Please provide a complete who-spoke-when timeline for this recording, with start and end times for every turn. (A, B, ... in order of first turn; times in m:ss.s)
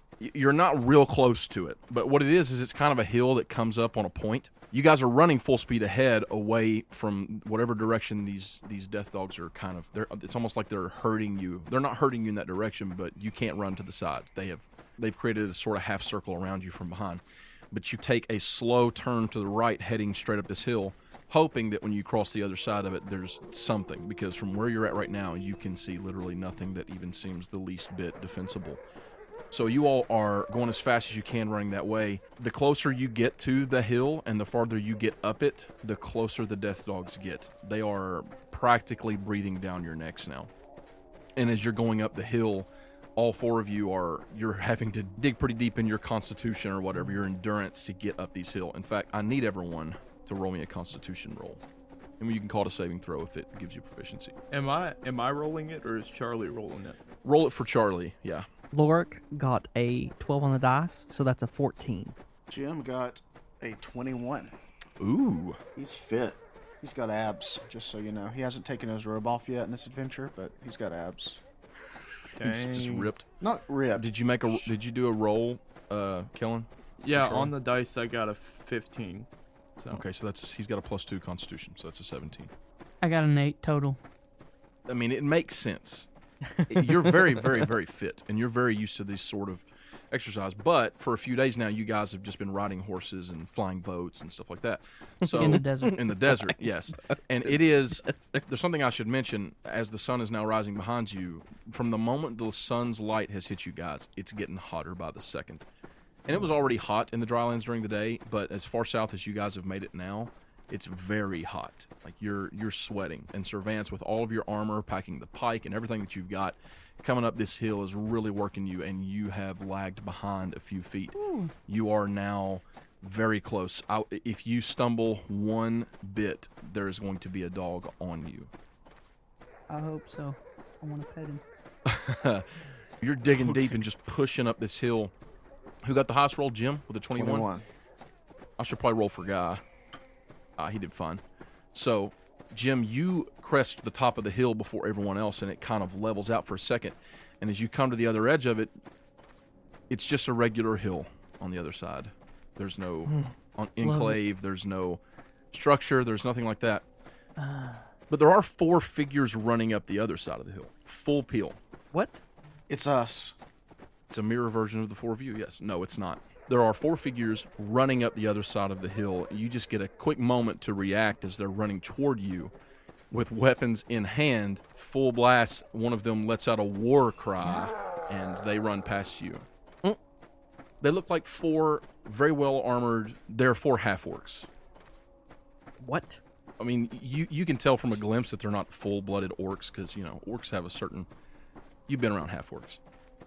0:00.2-0:28.8 A
0:29.5-0:40.5 A
0:41.4-0:51.6 A
0:52.2-0:54.4 A
0:54.5-0:57.0 B
0:57.2-0:58.5 A
0:58.7-1:02.2 C
1:02.5-1:04.5 D
1:05.0-1:05.6 A
1:05.8-1:11.4 D
1:12.4-1:13.1 B
1:12.4-1:13.3 A
1:13.4-1:14.7 D
1:14.0-1:16.7 A
1:17.0-1:20.0 B
1:17.2-1:17.5 A
1:19.9-1:22.5 A
1:23.0-1:24.0 E
1:24.9-1:26.1 A
1:26.6-1:27.5 C
1:26.7-1:45.6 A
1:35.2-1:38.4 C
1:35.3-1:36.0 E
1:46.3-2:08.5 A
2:01.2-2:01.5 E
2:09.7-2:11.4 E
2:11.9-2:12.5 A
2:13.0-2:15.1 A
2:15.8-2:17.5 A
2:17.2-2:17.6 D
2:18.6-2:19.6 A
2:20.6-2:21.2 A
2:21.7-2:28.7 A
2:29.9-2:35.0 A
2:33.1-2:34.2 C
2:35.5-2:36.8 A
2:37.4-2:37.9 C
2:38.1-2:41.6 A
2:41.9-2:42.2 C
2:42.7-2:43.4 D
2:44.1-2:52.5 A
2:53.1-2:59.4 A
3:00.8-3:04.5 A
3:05.8-3:06.2 C
3:06.6-3:11.1 A
3:11.9-3:12.8 A